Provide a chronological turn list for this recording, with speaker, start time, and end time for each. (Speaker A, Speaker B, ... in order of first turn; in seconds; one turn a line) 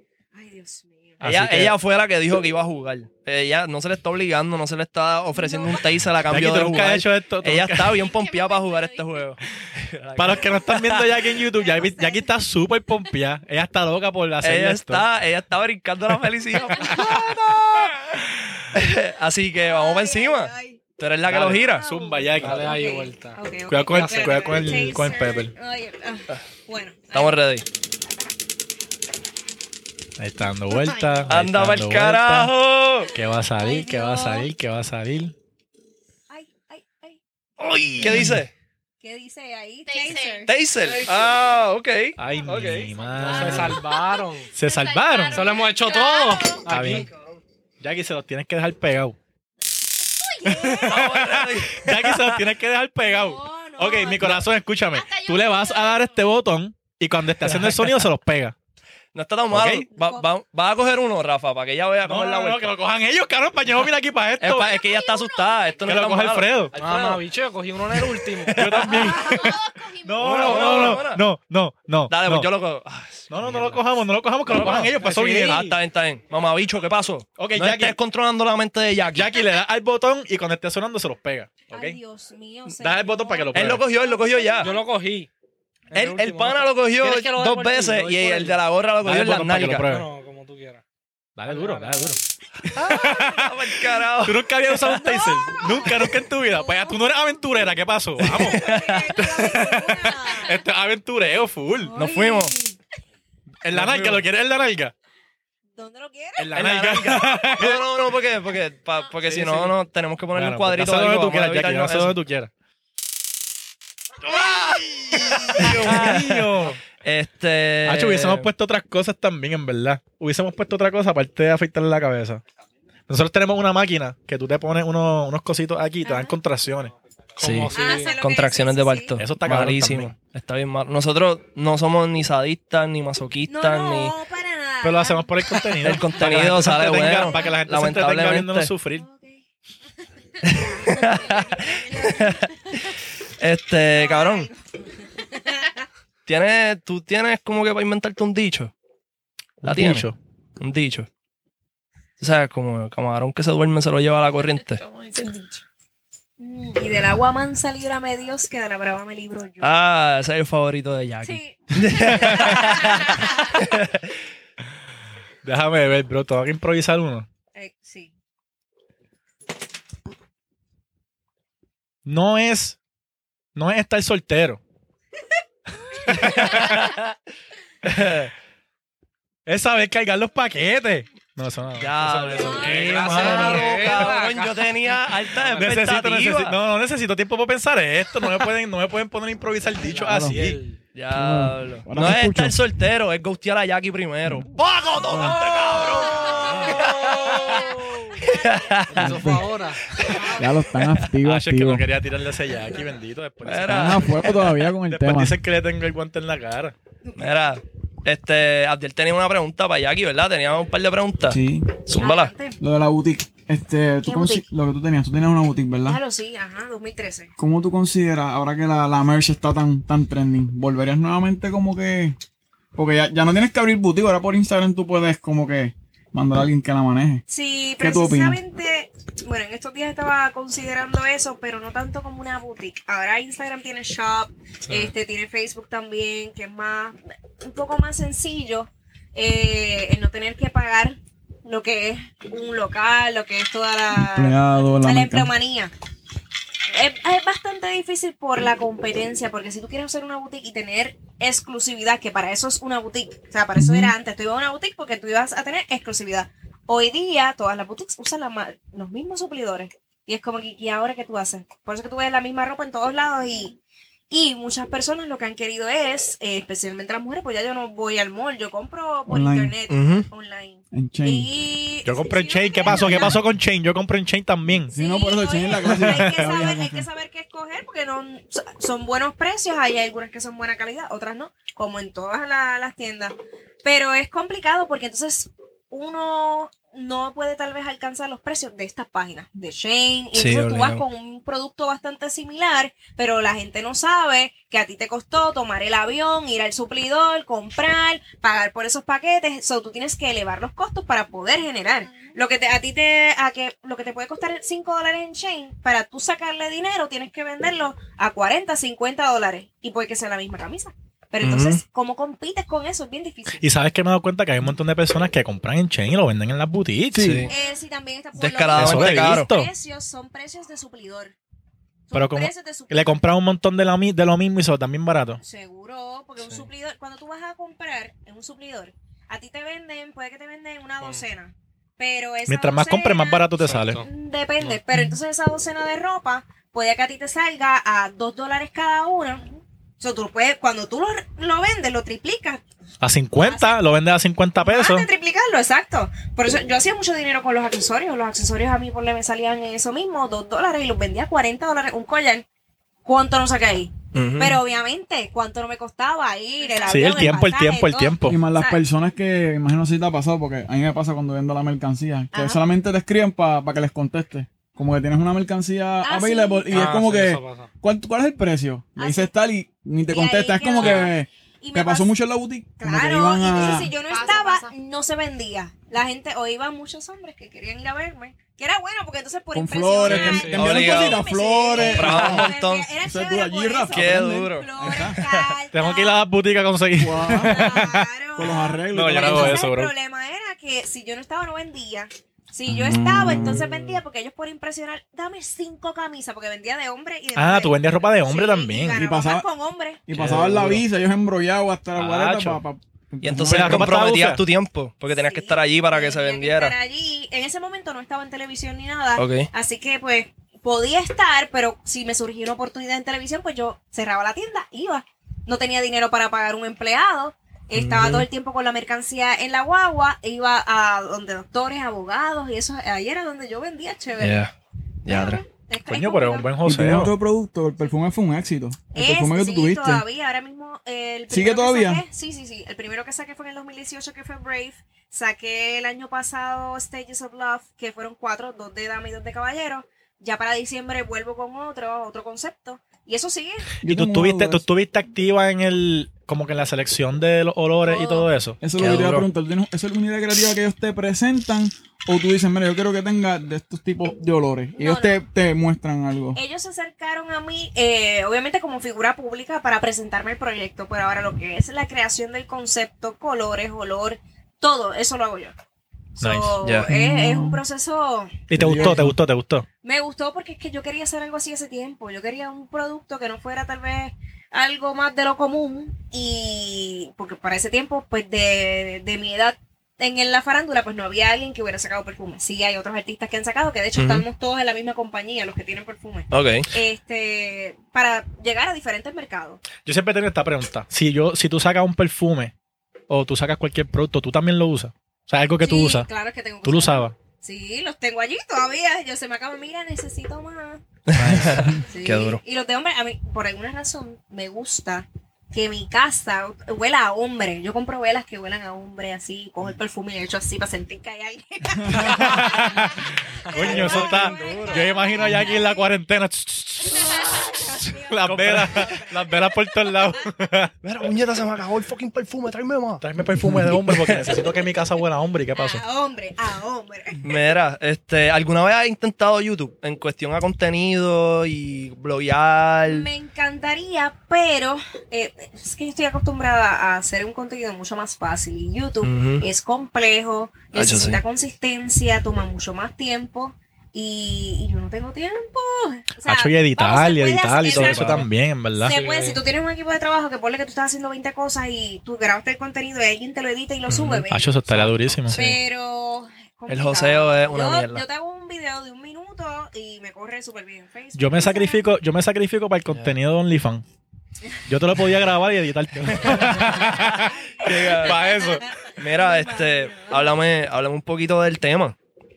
Speaker A: 0.3-1.2
Speaker B: 1.2-1.8
Speaker C: 1.2-11.3
Speaker A: 5.4-5.8
Speaker B: 6.3-8.0
Speaker D: 7.9-9.2
Speaker B: 10.2-15.1
Speaker A: 11.6-12.3
Speaker C: 14.4-17.9
Speaker A: 16.8-17.3
Speaker B: 16.8-18.6
Speaker D: 16.8-17.2
Speaker C: 18.7-21.9
Speaker A: 19.6-20.8
Speaker B: 21.3-22.8
Speaker A: 21.5-27.4
Speaker E: 22.3-23.4
Speaker B: 23.7-25.5
Speaker E: 23.9-24.3
Speaker C: 27.1-27.6
Speaker B: 30.2-32.5
Speaker D: 30.7-31.3
Speaker C: 31.3-33.1
Speaker B: 33.1-35.3
Speaker A: 33.5-34.5
Speaker A: 36.3-37.2
Speaker C: 37.6-38.5
Speaker B: 37.9-38.4
Speaker A: 39.0-40.5
Speaker D: 39.9-40.5
Speaker C: 40.5-43.5
Speaker B: 42.2-43.8
Speaker D: 43.1-46.8
Speaker E: 43.2-44.5
Speaker B: 44.5-45.5
Speaker E: 45.3-47.1
Speaker B: 46.7-47.1
Speaker B: 47.8-49.2
Speaker A: 50.1-51.1
Speaker B: 50.4-58.5
Speaker C: 50.8-52.4
Speaker A: 53.0-54.4
Speaker D: 54.9-56.2
Speaker C: 57.5-58.0
Speaker C: 59.1-62.7
Speaker B: 59.5-59.9
Speaker A: 59.9-60.2
Speaker B: 62.0-64.7
Speaker C: 64.4-67.2
Speaker D: 64.7-65.9
Speaker B: 65.8-66.7
Speaker E: 66.7-68.8
Speaker C: 68.4-69.1
Speaker B: 68.5-72.5
Speaker D: 68.8-71.1
Speaker C: 70.2-71.2
Speaker C: 72.1-73.8
Speaker B: 73.3-75.6
Speaker E: 73.5-73.7
Speaker C: 74.5-79.4
Speaker E: 74.5-75.8
Speaker B: 77.4-78.0
Speaker B: 79.1-82.0
Speaker A: 81.7-84.8
Speaker B: 82.8-83.8
Speaker C: 83.5-84.7
Speaker E: 84.6-85.3
Speaker E: 85.9-88.6
Speaker C: 85.9-89.9
Speaker B: 89.0-90.1
Speaker E: 89.8-90.8
Speaker B: 91.4-101.9
Speaker E: 91.5-92.2
Speaker C: 92.7-94.4
Speaker A: 94.8-97.3
Speaker C: 98.2-99.8
Speaker A: 98.3-100.6
Speaker A: 101.8-102.8
Speaker C: 102.0-102.5
Speaker B: 103.6-104.9
Speaker C: 103.7-104.2
Speaker A: 105.8-107.2
Speaker B: 106.4-107.8
Speaker C: 106.5-112.2
Speaker B: 109.3-109.7
Speaker B: 110.3-112.5
Speaker C: 114.2-118.5
Speaker B: 114.2-116.8
Speaker B: 117.8-122.4
Speaker B: 123.1-126.9
Speaker A: 126.0-126.4
Speaker E: 127.4-128.2
Speaker C: 127.4-134.1
Speaker A: 127.7-129.2
Speaker B: 129.2-130.1
Speaker A: 133.5-136.0
Speaker B: 134.8-139.1
Speaker C: 135.8-138.7
Speaker A: 137.1-137.5
Speaker A: 138.9-139.4
Speaker A: 140.4-142.7
Speaker C: 140.4-144.5
Speaker A: 143.9-145.8
Speaker C: 146.2-148.7
Speaker B: 149.6-150.2
Speaker C: 149.6-151.1
Speaker C: 152.2-154.8
Speaker D: 154.7-155.6
Speaker A: 156.4-159.7
Speaker C: 159.6-164.1
Speaker A: 161.2-163.6
Speaker B: 162.2-162.6
Speaker B: 165.4-167.3
Speaker A: 167.5-168.1
Speaker B: 172.0-172.8
Speaker B: 173.5-174.6
Speaker A: 175.9-176.4
Speaker B: 176.1-176.8
Speaker C: 176.1-177.1
Speaker C: 177.8-178.3
Speaker B: 179.4-184.1
Speaker C: 181.8-186.6
Speaker E: 182.3-184.9
Speaker B: 185.5-190.6
Speaker E: 189.8-190.8
Speaker F: 190.0-190.5
Speaker C: 190.9-199.3
Speaker F: 191.1-192.6
Speaker A: 196.1-198.4
Speaker E: 196.7-198.0
Speaker E: 198.9-200.0
Speaker F: 198.9-199.5
Speaker C: 199.9-200.3
Speaker D: 200.2-200.5
Speaker F: 200.3-201.8
Speaker B: 201.2-206.7
Speaker C: 203.4-204.3
Speaker F: 203.7-205.4
Speaker C: 207.2-212.3
Speaker F: 211.3-211.7
Speaker A: 212.0-212.6
Speaker F: 212.6-216.0
Speaker A: 214.0-214.4
Speaker A: 215.8-217.3
Speaker F: 217.4-222.2
Speaker F: 222.7-227.2
Speaker A: 227.3-245.7
Speaker F: 227.8-228.4
Speaker F: 243.9-245.3
Speaker A: 246.7-263.6
Speaker F: 253.6-253.9
Speaker A: 264.1-273.2
Speaker F: 269.1-269.5
Speaker C: 269.7-270.1
Speaker F: 270.7-271.3
Speaker B: 271.8-274.7
Speaker F: 272.7-273.2
Speaker F: 274.5-276.9
Speaker A: 274.7-313.4
Speaker B: 275.7-276.3
Speaker C: 290.1-290.8
Speaker C: 311.2-311.6
Speaker B: 313.4-317.1
Speaker F: 316.9-317.3
Speaker C: 317.0-317.3
Speaker A: 317.3-321.1
Speaker C: 318.2-319.3
Speaker B: 318.5-319.5
Speaker A: 321.9-323.0
Speaker B: 321.9-325.2
Speaker A: 325.2-342.4
Speaker B: 332.3-333.8
Speaker E: 333.4-333.9
Speaker B: 342.8-344.9
Speaker A: 343.2-343.6
Speaker A: 344.4-352.2
Speaker A: 352.8-358.6
Speaker C: 353.9-354.4
Speaker B: 356.6-358.2
Speaker F: 358.1-373.7
Speaker A: 362.1-362.4
Speaker A: 365.8-366.6
Speaker E: 366.5-367.5
Speaker A: 368.8-369.1
Speaker A: 369.9-371.9
Speaker A: 372.6-386.1
Speaker D: 373.7-374.5
Speaker F: 379.3-385.0
Speaker E: 379.8-380.5
Speaker C: 380.4-381.0
Speaker C: 381.6-382.7
Speaker C: 383.7-385.3
Speaker B: 385.5-387.8
Speaker F: 386.8-389.4
Speaker A: 387.1-399.9
Speaker B: 388.7-389.7
Speaker F: 392.5-393.4
Speaker B: 397.1-398.8
Speaker F: 398.7-399.3
Speaker F: 399.9-403.8
Speaker B: 399.9-400.6
Speaker B: 401.8-402.4
Speaker C: 403.0-406.5
Speaker B: 403.2-404.2
Speaker A: 404.9-424.2
Speaker C: 409.0-409.3
Speaker C: 417.5-418.1
Speaker C: 424.0-424.3
Speaker C: 424.8-425.2
Speaker A: 424.9-426.3
Speaker B: 425.7-426.9
Speaker F: 426.4-429.8
Speaker A: 428.7-443.6
Speaker F: 431.1-431.8
Speaker F: 443.6-444.4
Speaker B: 443.6-449.0
Speaker A: 447.6-448.1
Speaker F: 448.4-456.2
Speaker C: 448.6-449.0
Speaker A: 454.6-455.0
Speaker A: 456.1-465.3
Speaker A: 466.0-468.8
Speaker B: 466.0-466.4
Speaker C: 466.4-466.7
Speaker F: 466.7-467.4
Speaker B: 468.3-469.5
Speaker F: 468.3-469.0
Speaker A: 469.6-489.4
Speaker C: 483.8-484.0
Speaker C: 486.1-486.5
Speaker B: 489.6-492.3
Speaker B: 492.9-495.9
Speaker A: 495.4-500.6
Speaker B: 496.4-496.9
Speaker C: 500.9-502.2
Speaker B: 501.0-501.6
Speaker A: 501.6-515.7
Speaker F: 511.6-512.1
Speaker B: 511.7-520.5
Speaker C: 513.3-514.7
Speaker A: 516.6-520.0
Speaker C: 518.0-518.7
Speaker C: 520.6-524.1
Speaker B: 522.8-525.6
Speaker A: 525.3-527.0
Speaker C: 527.0-532.9
Speaker A: 532.6-554.3
Speaker C: 538.8-539.2
Speaker C: 540.5-541.0
Speaker B: 546.0-548.8
Speaker C: 547.5-548.0
Speaker E: 548.6-549.2
Speaker C: 553.7-554.0
Speaker B: 554.1-555.2
Speaker E: 554.5-555.0
Speaker C: 554.6-555.4
Speaker A: 555.1-561.7
Speaker C: 556.5-557.8
Speaker B: 561.0-563.6
Speaker C: 562.7-562.9
Speaker B: 564.5-568.4
Speaker C: 565.9-568.0
Speaker A: 566.4-570.1
Speaker C: 568.8-571.8